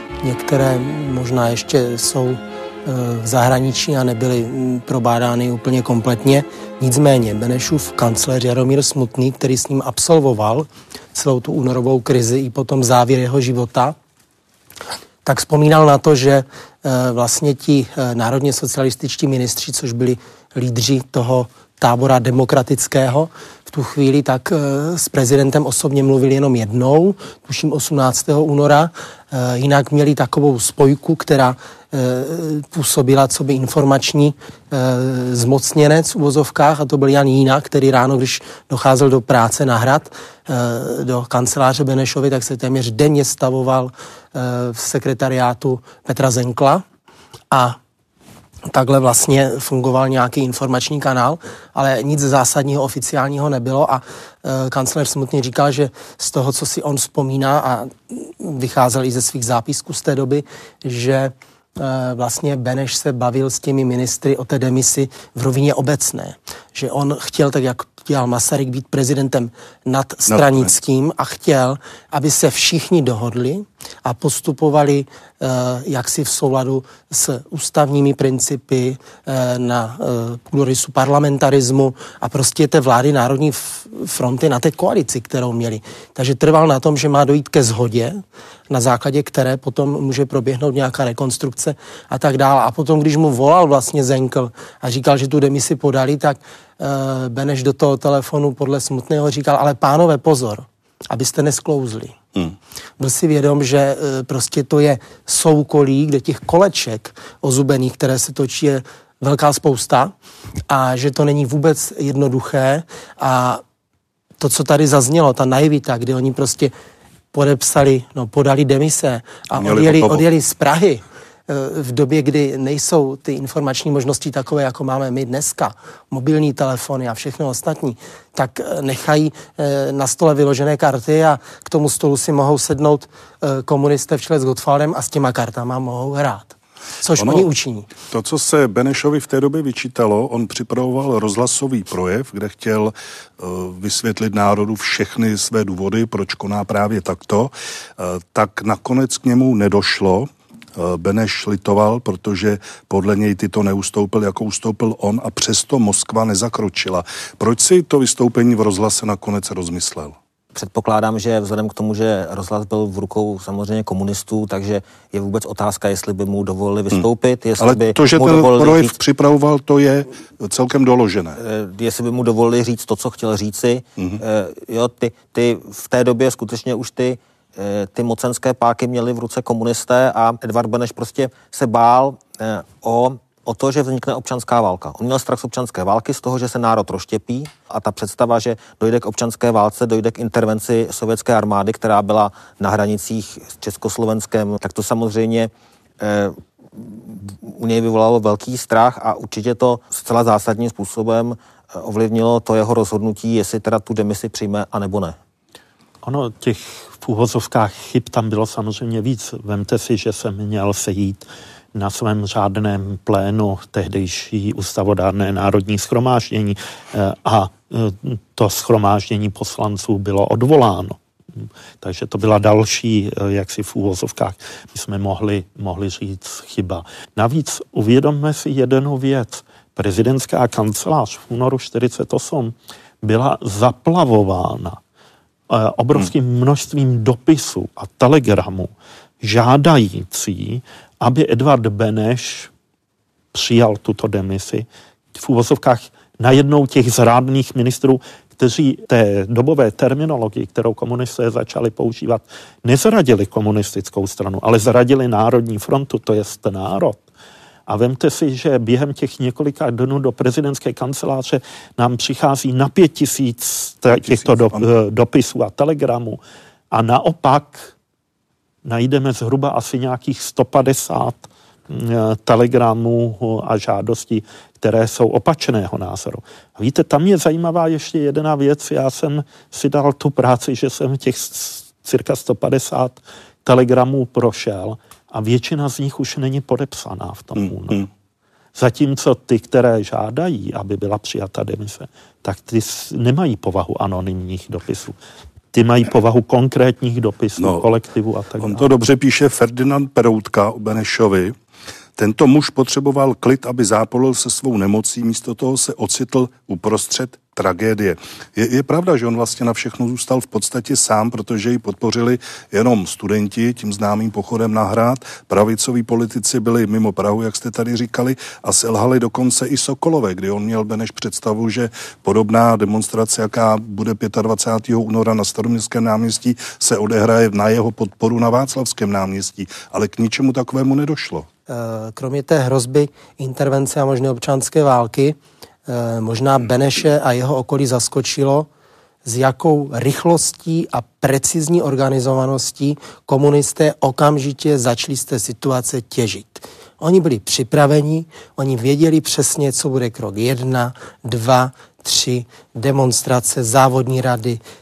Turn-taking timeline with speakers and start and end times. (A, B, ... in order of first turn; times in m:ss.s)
0:00.2-0:14.0 A
0:15.2-0:46.8 A
0:47.5-0:47.8 A
0:48.7-1:42.2 A
1:10.3-1:10.7 B
1:43.0-1:50.1 A
1:50.7-1:53.6 A
1:54.4-1:56.7 A
1:57.3-2:17.9 A
1:59.6-2:00.2 B
2:17.2-2:17.5 B
2:18.1-2:40.2 B
2:40.6-2:49.0 C
2:47.6-2:51.4 B
2:51.4-3:25.2 C
3:26.0-3:54.8 D
3:55.5-3:58.7 D
3:59.2-4:02.5 D
4:03.3-4:17.0 D
4:17.7-4:26.2 D
4:24.0-4:24.6 B
4:26.7-4:27.7 D
4:28.6-4:47.9 D
4:47.4-4:47.8 B
4:48.6-4:55.0 D
4:55.5-4:58.6 D
4:57.4-4:57.6 B
4:58.4-5:01.4 B
5:02.0-5:31.3 B
5:31.5-5:38.5 A
5:39.0-5:54.4 A